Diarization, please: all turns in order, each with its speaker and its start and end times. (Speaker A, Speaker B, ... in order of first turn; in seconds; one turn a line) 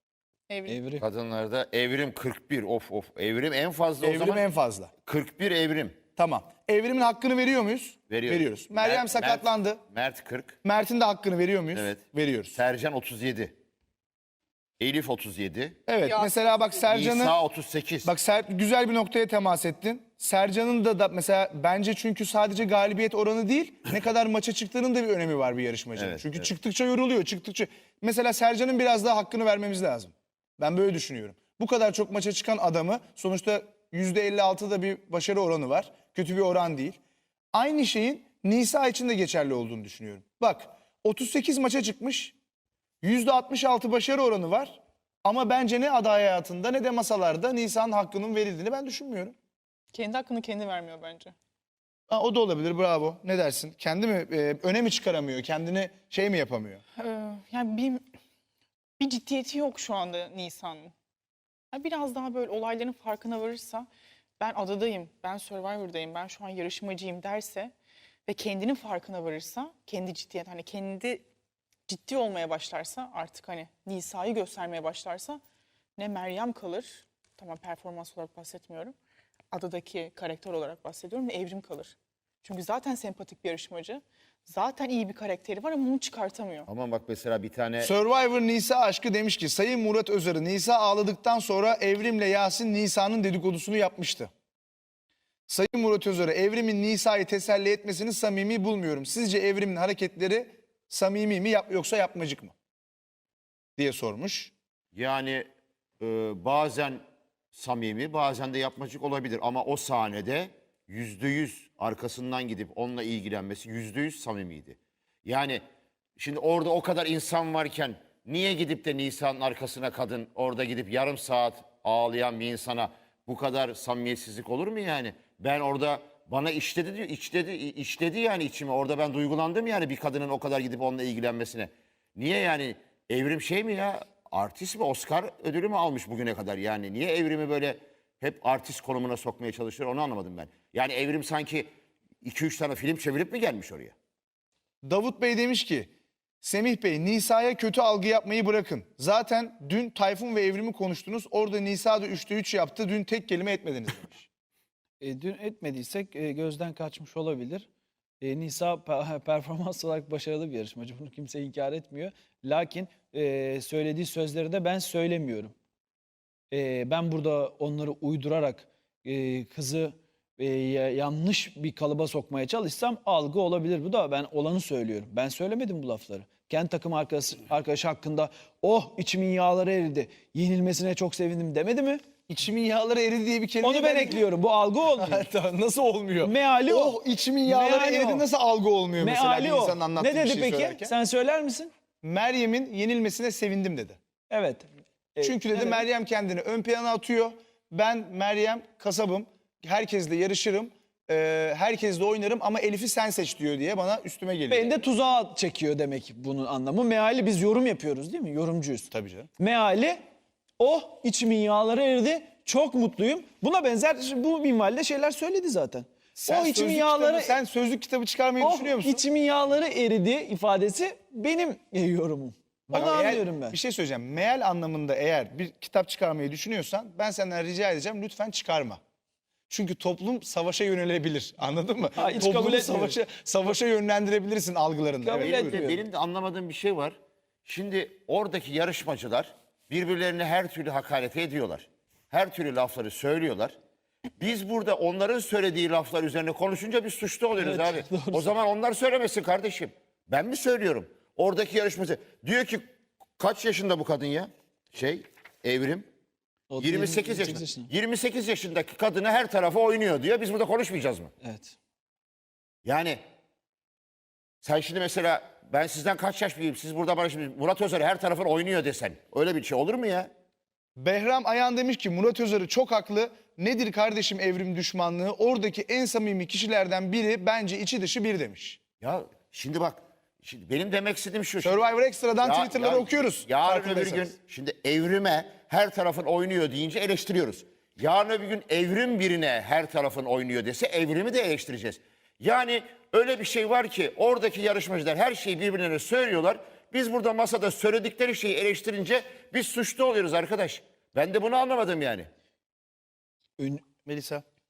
Speaker A: 0.5-0.8
Speaker B: 0.7-1.0
Speaker C: 1.0-4.4
Speaker D: 4.0-4.9
Speaker C: 5.0-6.0
Speaker D: 6.2-9.8
Speaker C: 8.1-10.6
Speaker D: 10.6-12.6
Speaker C: 11.7-13.5
Speaker C: 14.8-15.8
Speaker D: 15.8-17.4
Speaker C: 16.9-18.1
Speaker D: 18.0-37.0
Speaker C: 25.9-26.5
Speaker D: 37.5-42.3
Speaker D: 43.0-49.3
Speaker A: 49.9-51.3
Speaker D: 52.1-56.8
Speaker A: 57.0-58.0
Speaker A: 59.0-60.9
Speaker A: 61.7-63.9
Speaker A: 64.4-67.7
Speaker A: 68.3-71.2
Speaker A: 71.9-75.4
Speaker A: 76.0-78.9
Speaker A: 79.5-86.7
Speaker C: 86.7-87.9
Speaker D: 87.8-94.3
Speaker D: 95.5-102.5
Speaker D: 103.8-104.5
Speaker C: 104.9-105.5
Speaker C: 106.0-107.0
Speaker C: 107.5-115.6
Speaker C: 116.2-141.7
Speaker C: 142.2-143.9
Speaker D: 144.8-145.9
Speaker D: 146.4-154.3
Speaker B: 155.0-157.7
Speaker B: 158.2-165.5
Speaker B: 166.5-182.0
Speaker D: 182.3-184.2
Speaker B: 183.6-185.3
Speaker D: 185.0-190.9
Speaker B: 186.2-188.2
Speaker B: 189.0-191.7
Speaker D: 192.0-194.0
Speaker B: 194.3-195.8
Speaker D: 195.2-204.9
Speaker B: 204.5-210.0
Speaker D: 208.9-209.3
Speaker B: 210.6-217.4
Speaker D: 216.2-219.0
Speaker B: 218.4-223.6
Speaker D: 222.7-228.8
Speaker D: 229.5-235.6
Speaker B: 231.9-233.0
Speaker B: 235.0-235.8
Speaker C: 235.1-243.5
Speaker C: 244.2-255.9
Speaker B: 247.4-248.3
Speaker B: 256.5-257.7
Speaker C: 256.6-261.1
Speaker B: 261.2-261.6
Speaker C: 262.6-263.0
Speaker C: 264.4-270.1
Speaker D: 270.8-278.6
Speaker C: 278.8-281.6
Speaker D: 281.4-284.1
Speaker C: 282.2-302.1
Speaker B: 303.4-303.6
Speaker D: 303.9-304.2